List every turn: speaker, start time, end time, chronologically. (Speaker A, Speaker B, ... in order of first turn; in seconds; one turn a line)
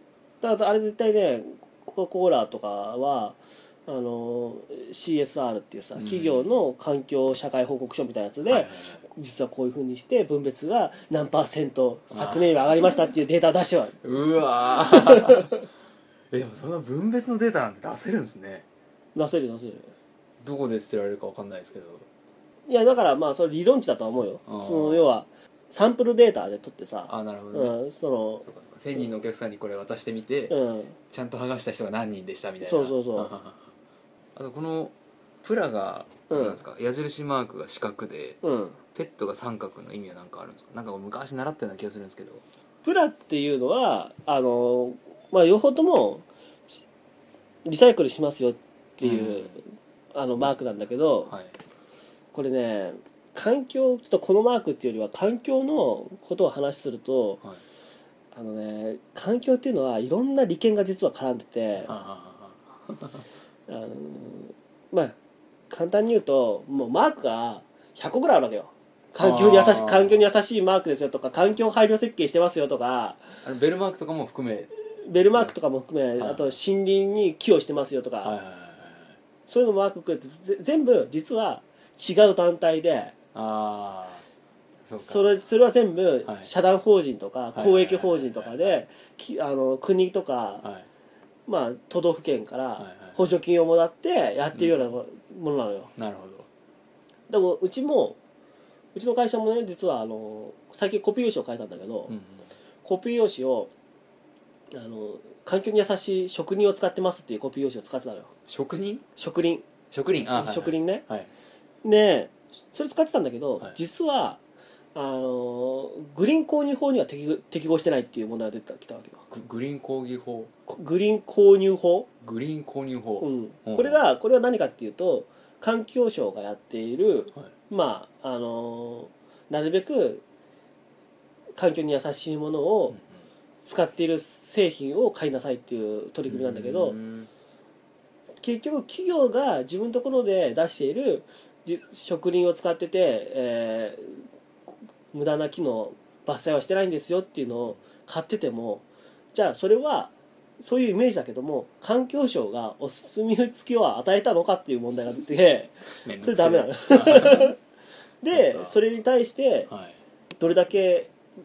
Speaker A: 0.4-14.0
Speaker B: 6.0-6.5
Speaker B: 8.5-9.0
Speaker B: 12.1-12.5
Speaker B: 14.0-15.5
Speaker A: 14.7-15.7
Speaker B: 16.3-18.7
Speaker A: 19.2-19.9
Speaker B: 20.4-22.1
Speaker A: 22.7-28.5
Speaker B: 24.5-25.1
Speaker B: 27.1-27.8
Speaker B: 28.4-30.6
Speaker A: 30.5-31.0
Speaker B: 31.1-33.7
Speaker A: 32.6-33.3
Speaker B: 34.4-38.4
Speaker A: 36.3-36.6
Speaker A: 38.4-38.8
Speaker B: 38.9-42.4
Speaker A: 42.8-46.2
Speaker A: 47.6-51.3
Speaker B: 49.0-49.6
Speaker B: 51.3-51.5
Speaker A: 52.3-57.4
Speaker A: 58.3-61.9
Speaker B: 61.8-63.2
Speaker A: 63.7-65.2
Speaker A: 65.7-73.3
Speaker B: 69.2-70.2
Speaker B: 73.4-74.7
Speaker A: 75.0-78.3
Speaker B: 76.2-76.5
Speaker B: 78.2-79.2
Speaker A: 79.5-83.2
Speaker B: 83.3-84.2
Speaker B: 84.9-85.3
Speaker A: 85.0-90.7
Speaker B: 87.5-88.8
Speaker A: 91.5-95.9
Speaker B: 92.8-93.2
Speaker B: 96.0-96.5
Speaker A: 97.3-98.2
Speaker A: 99.0-102.2
Speaker B: 102.1-102.5
Speaker A: 102.8-103.7
Speaker A: 104.7-108.3
Speaker B: 108.5-109.0
Speaker A: 109.2-109.7
Speaker B: 109.9-111.3
Speaker A: 110.3-111.0
Speaker A: 111.8-114.4
Speaker A: 115.0-119.2
Speaker B: 119.3-120.5
Speaker A: 120.7-122.1
Speaker B: 122.2-124.0
Speaker A: 123.2-130.2
Speaker A: 131.6-133.0
Speaker A: 133.6-137.0
Speaker B: 136.3-137.3
Speaker A: 138.4-144.2
Speaker A: 145.1-157.6
Speaker B: 156.0-157.5
Speaker A: 158.2-159.7
Speaker B: 158.2-159.0
Speaker B: 159.7-160.0
Speaker A: 160.4-161.1